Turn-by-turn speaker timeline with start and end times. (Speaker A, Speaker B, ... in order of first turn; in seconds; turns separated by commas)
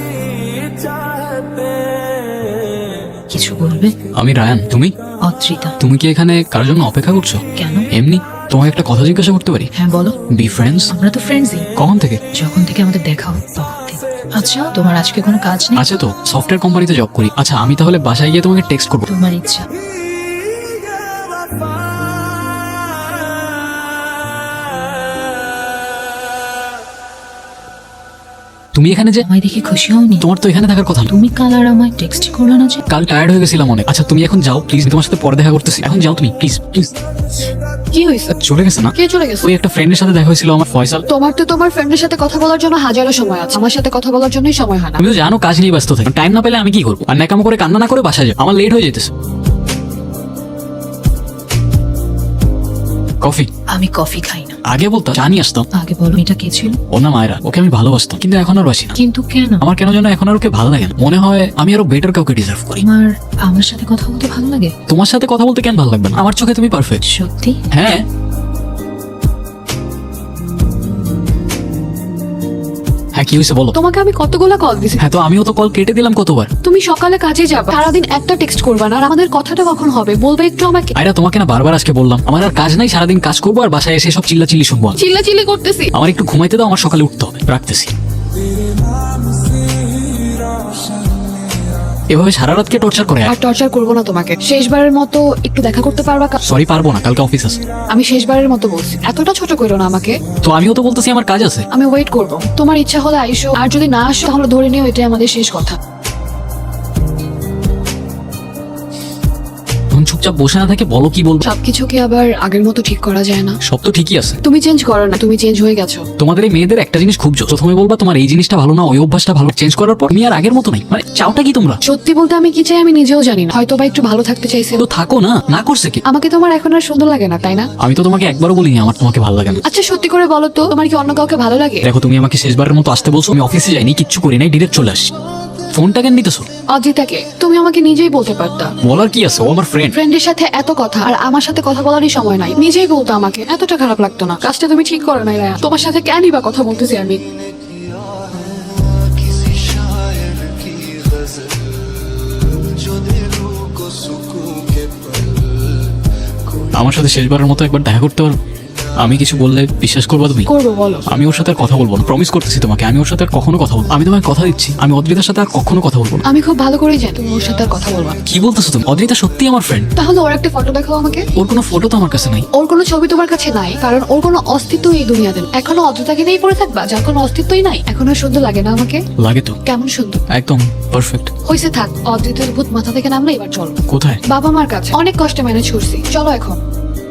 Speaker A: 3.3-3.9, Speaker B: 4.1-4.9, Speaker A: 5.2-5.8, Speaker B: 5.8-9.7, Speaker A: 7.5-7.9, Speaker A: 9.7-10.2, Speaker B: 10.3-10.9, Speaker A: 10.9-11.7, Speaker B: 11.8-12.2, Speaker A: 12.3-15.8, Speaker B: 15.7-19.1, Speaker A: 19.1-19.7, Speaker B: 28.7-29.2, Speaker A: 29.2-30.2, Speaker B: 30.2-31.1, Speaker A: 31.1-32.8, Speaker B: 32.9-36.9, Speaker C: 37.9-38.4, Speaker B: 38.4-41.0, Speaker C: 38.9-39.5, Speaker C: 41.1-45.0, Speaker B: 45.0-49.1, Speaker B: 53.2-53.5, Speaker A: 53.7-54.6, Speaker B: 54.6-55.7, Speaker A: 55.7-56.8, Speaker B: 56.9-59.0, Speaker A: 59.0-59.6, Speaker B: 59.6-62.8, Speaker A: 62.8-64.7, Speaker B: 64.9-67.0, Speaker A: 67.0-67.6, Speaker B: 67.7-68.0, Speaker B: 73.1-73.7, Speaker C: 73.7-75.0, Speaker B: 75.0-76.5, Speaker C: 76.6-80.9, Speaker B: 80.9-85.0, Speaker C: 85.0-85.9, Speaker B: 85.9-87.9, Speaker B: 92.1-93.3, Speaker C: 93.3-96.4, Speaker B: 96.4-97.6, Speaker C: 97.9-100.2, Speaker B: 100.4-101.7, Speaker C: 101.7-105.8, Speaker B: 109.9-111.5, Speaker C: 111.4-113.6, Speaker B: 113.6-114.4, Speaker C: 114.4-116.0, Speaker B: 116.2-121.8, Speaker C: 121.8-124.8, Speaker B: 124.8-126.0, Speaker C: 126.0-127.7, Speaker B: 127.8-129.6, Speaker C: 129.6-131.8, Speaker B: 131.8-135.1, Speaker B: 135.7-136.5, Speaker C: 136.7-138.7, Speaker B: 138.8-139.9, Speaker C: 139.9-147.2, Speaker B: 156.7-158.3, Speaker B: 159.0-160.5, Speaker C: 160.5-161.1, Speaker B: 161.1-166.2, Speaker C: 166.2-168.2, Speaker B: 168.2-169.9, Speaker C: 169.9-171.3, Speaker B: 171.3-172.4, Speaker C: 172.5-179.0, Speaker B: 179.2-179.6, Speaker C: 179.7-180.2, Speaker B: 180.3-181.3, Speaker C: 181.4-186.6, Speaker B: 183.9-184.2